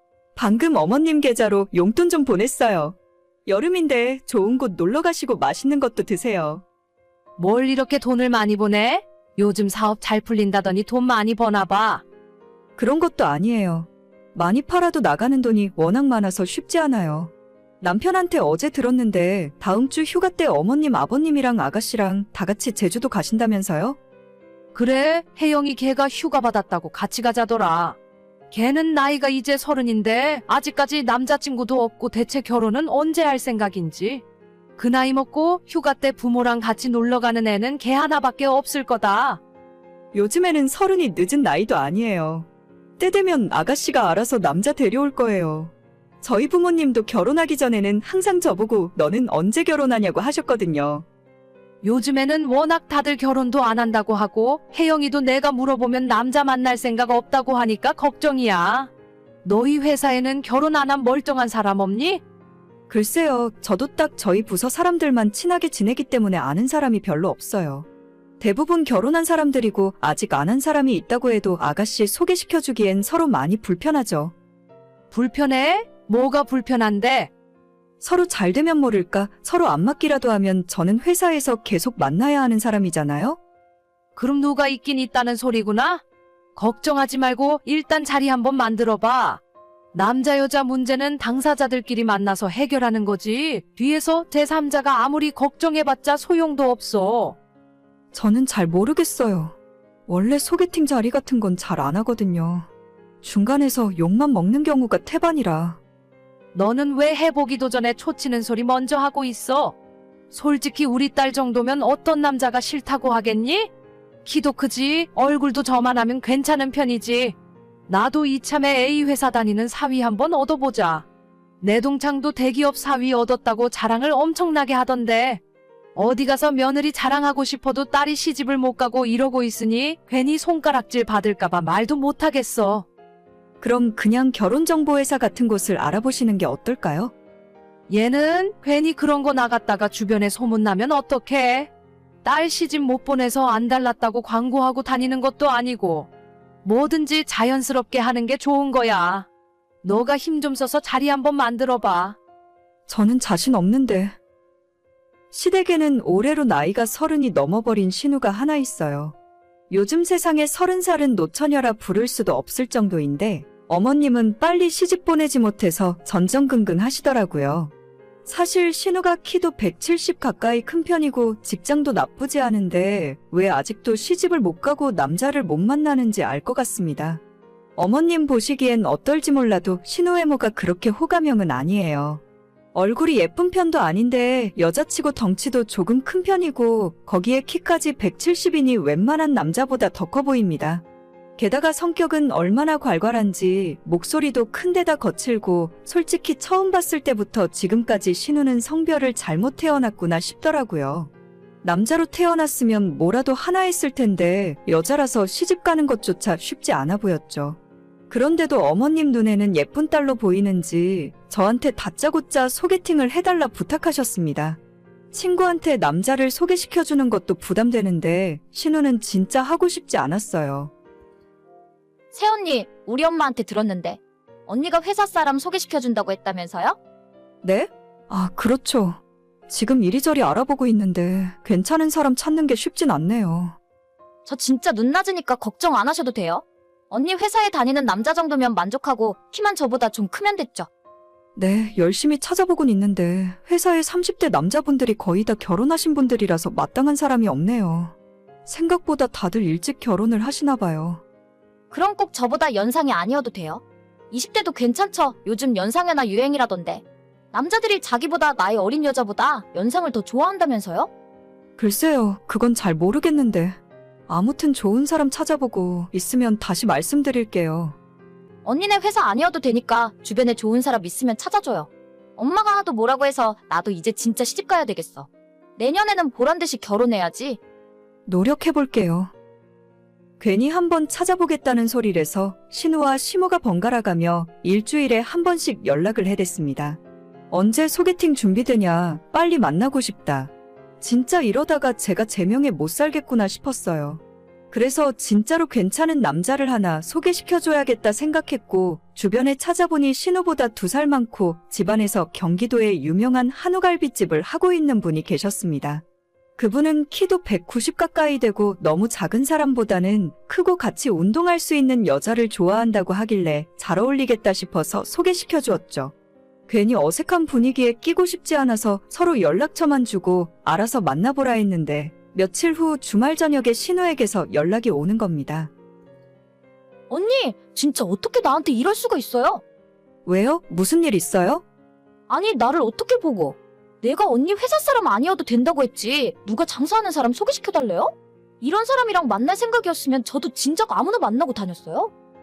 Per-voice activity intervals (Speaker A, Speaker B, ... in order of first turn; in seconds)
Speaker A: 0.4-6.6, 12.8-24.0, 40.1-42.5, 43.0-51.1, 62.9-67.9, 68.4-74.3, 78.0-83.4, 98.1-99.6, 100.1-102.7, 103.2-105.8, 133.6-137.1, 152.9-154.2, 155.3-159.2, 159.7-167.7, 168.2-177.2, 177.8-182.2, 182.7-190.8, 191.4-201.1, 201.6-207.6, 208.1-214.6, 215.1-220.7, 227.4-233.6, 241.4-247.9, 248.5-251.0, 261.6-267.8, 278.1-279.1, 280.2-286.8, 287.3-305.8, 306.4-315.9, 316.5-325.5, 330.1-331.4
Speaker B: 7.4-12.0, 24.8-28.0, 28.5-34.2, 34.8-39.4, 51.8-58.9, 59.4-62.2, 75.1-77.3, 84.2-86.0, 86.6-89.4, 89.9-97.4, 106.5-109.8, 110.3-113.7, 114.2-117.3, 117.9-121.0, 121.6-125.4, 126.0-132.8, 137.9-141.7, 142.2-146.1, 146.6-149.3, 149.8-152.2
Speaker C: 222.1-226.8, 234.2-240.7, 251.7-260.9, 268.4-277.4, 326.9-329.4, 332.1-341.9